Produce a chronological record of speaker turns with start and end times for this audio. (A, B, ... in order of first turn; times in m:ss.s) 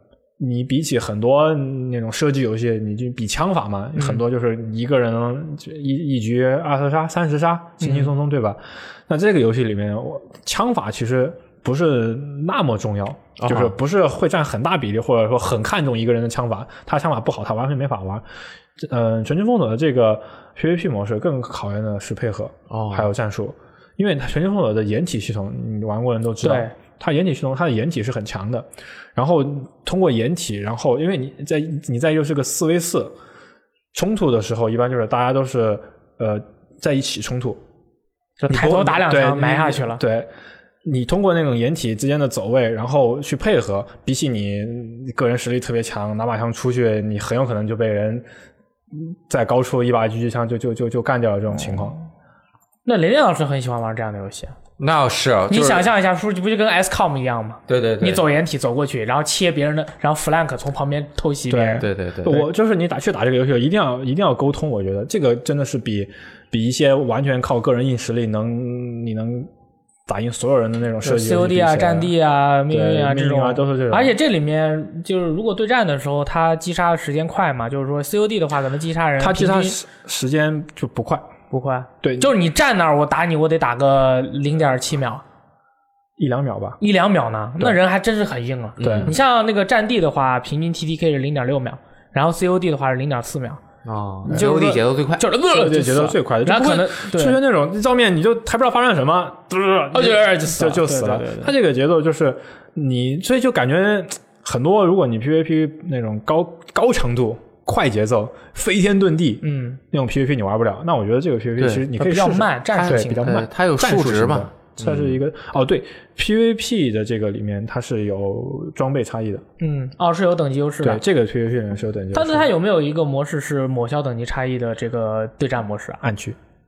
0:00.4-0:18.2 A
0:04.0-0:04.2 B
0:07.8-0:08.1 B
0:13.4-0:13.7 C
0:18.8-0:33.1 A
0:22.7-0:23.1 C
0:26.4-0:26.7 B
0:33.9-0:37.6 A
0:38.4-0:40.0 B
0:38.5-0:40.3 A
0:40.8-0:48.2 A
0:48.9-0:52.0 A
0:52.9-0:54.6 B
0:54.8-0:55.9 C
0:55.5-1:01.9 B
0:57.7-0:58.2 C
1:01.5-1:09.5 A
1:01.8-1:02.5 C
1:10.1-1:12.1 A
1:11.0-1:19.8 B
1:12.7-1:14.1 A
1:19.2-1:21.3 A
1:21.5-1:25.2 B
1:22.0-1:22.3 A
1:26.2-1:26.8 A
1:26.8-1:33.6 B
1:28.8-1:29.2 C
1:28.8-1:29.2 A
1:33.8-1:35.3 C
1:34.3-1:37.4 B
1:34.3-1:34.6 A
1:35.5-1:59.4 A
1:39.9-1:41.5 B
1:49.4-1:49.8 B
1:51.6-1:51.9 C
1:52.0-1:53.5 B
1:52.7-1:55.2 C
1:59.6-2:01.0 B
2:00.8-2:02.5 A
2:02.1-2:06.0 B
2:06.0-2:06.4 A